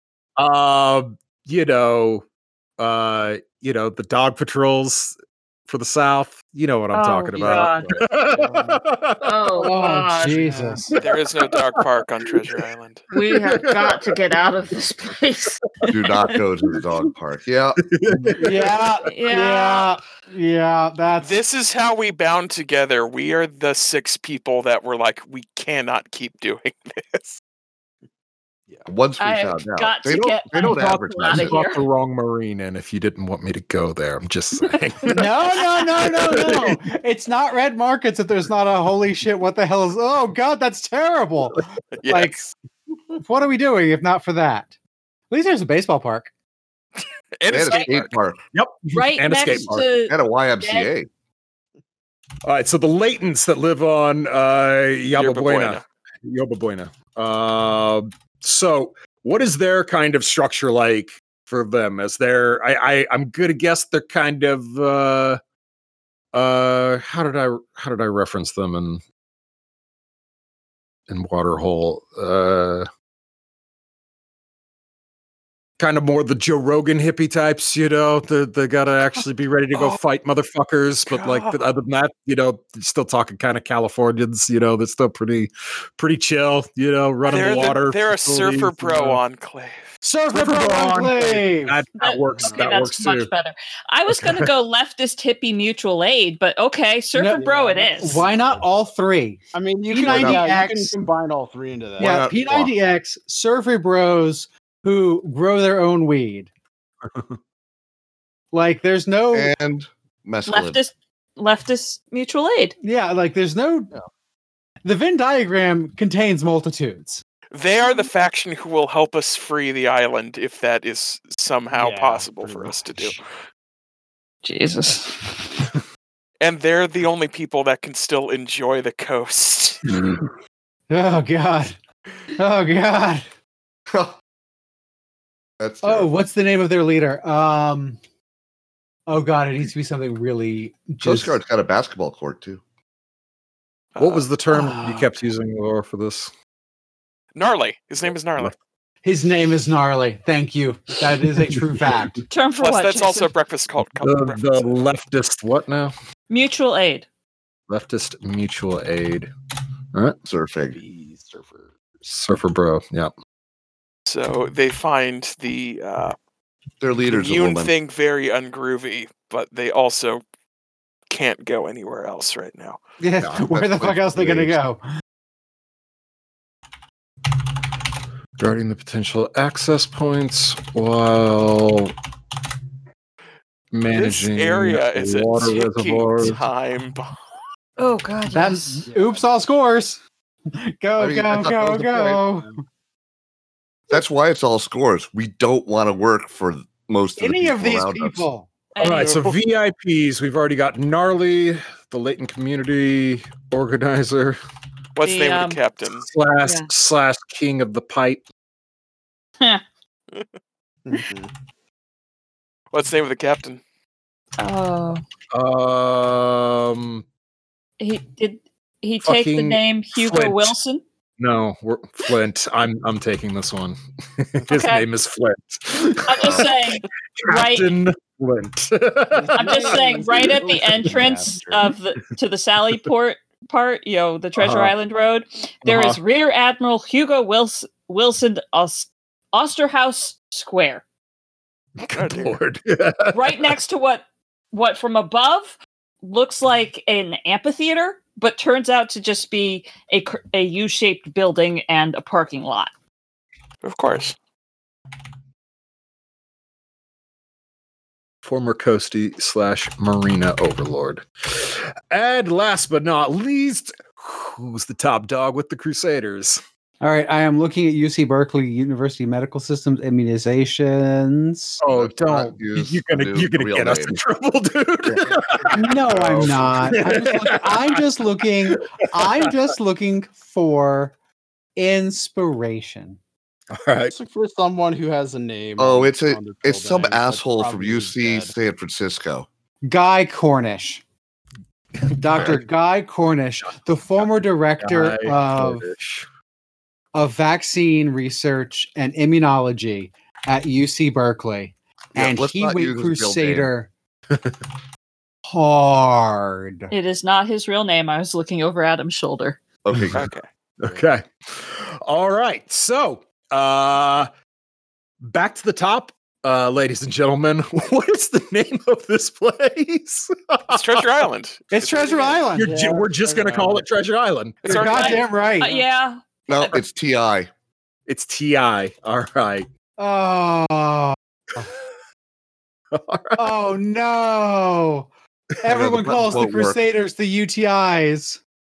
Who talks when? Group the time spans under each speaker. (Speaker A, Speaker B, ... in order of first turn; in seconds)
Speaker A: 0.4-2.2, 2.8-5.2, 5.7-9.5, 10.9-11.8, 13.1-14.4, 17.8-18.9, 30.6-36.8, 48.5-49.9, 52.4-65.4, 66.3-69.0, 71.1-72.9, 75.8-89.2, 90.3-93.3, 94.1-94.5, 107.0-107.4, 144.0-146.3, 153.9-155.9, 157.7-159.3, 162.0-163.1, 173.2-173.5, 178.4-181.9, 183.7-186.4, 198.8-204.4, 206.0-208.2, 215.3-217.0, 219.0-220.5, 221.2-231.3, 234.3-234.7, 235.6-236.0, 241.8-243.6, 258.2-266.4, 271.6-277.8, 278.5-279.3, 283.5-283.9, 294.6-296.1, 304.1-304.4, 309.7-310.0, 310.6-314.1, 315.0-320.8, 322.4-324.5, 327.9-329.5, 331.4-331.6, 332.7-333.2
Speaker B: 6.9-8.0, 9.2-10.5, 13.1-15.6, 19.0-19.9, 29.2-31.8, 48.9-50.9, 92.0-98.2, 110.5-112.7, 124.4-125.5, 152.3-153.3, 156.3-157.1, 187.8-188.8, 198.7-199.4, 205.0-205.6, 206.4-206.7, 214.4-215.0, 217.8-220.8, 224.5-224.9, 226.1-227.7, 229.3-240.8, 243.1-252.7, 306.7-309.4, 322.5-323.1, 324.5-326.5
Speaker C: 7.4-8.8, 10.3-10.8, 92.4-92.8, 97.4-98.7, 99.5-102.2, 121.7-123.2, 160.7-161.7, 188.8-189.5, 210.8-211.3, 229.1-231.7, 283.9-288.3, 323.1-323.5
Speaker D: 9.6-10.9, 18.4-21.4, 35.1-42.5, 43.1-44.7, 45.3-46.3, 90.0-91.8, 97.1-101.0, 102.0-106.5, 108.5-109.5, 112.8-113.9, 114.8-117.2, 130.9-131.8, 132.3-133.2, 135.8-138.0, 139.1-141.4, 144.5-145.1, 149.0-152.2, 173.0-174.8, 188.3-190.0, 190.8-192.6, 197.2-198.5, 266.8-271.6, 275.5-280.9, 281.6-283.0, 289.6-290.8, 291.9-295.7, 296.9-303.7, 305.3-306.7, 321.5-322.6, 324.4-325.5, 329.8-331.5, 333.2-334.9, 335.4-338.2
Speaker E: 11.0-13.0, 21.2-27.4, 41.9-42.5, 47.4-48.1, 55.1-55.8, 81.1-81.6, 87.2-89.9, 117.5-123.2, 126.4-129.8, 143.9-144.2, 147.3-148.5, 152.6-154.8, 164.1-166.2, 167.1-170.2, 171.1-172.8, 183.9-187.2, 204.9-206.1, 212.7-213.6, 241.9-242.4, 253.6-254.2, 309.9-310.2, 320.5-322.2, 324.4-325.1
Speaker F: 15.9-17.8, 28.9-31.6, 47.5-48.4, 50.1-51.1, 100.0-100.4, 102.0-102.7, 109.3-110.8, 133.9-134.1, 135.6-136.1, 141.0-142.6, 160.2-160.8, 166.8-167.7, 173.5-174.5, 191.0-192.2, 193.9-198.3, 271.7-274.0, 275.9-276.4, 285.6-289.3, 292.1-292.4, 301.9-303.5, 309.6-310.1, 326.3-327.3, 335.5-336.6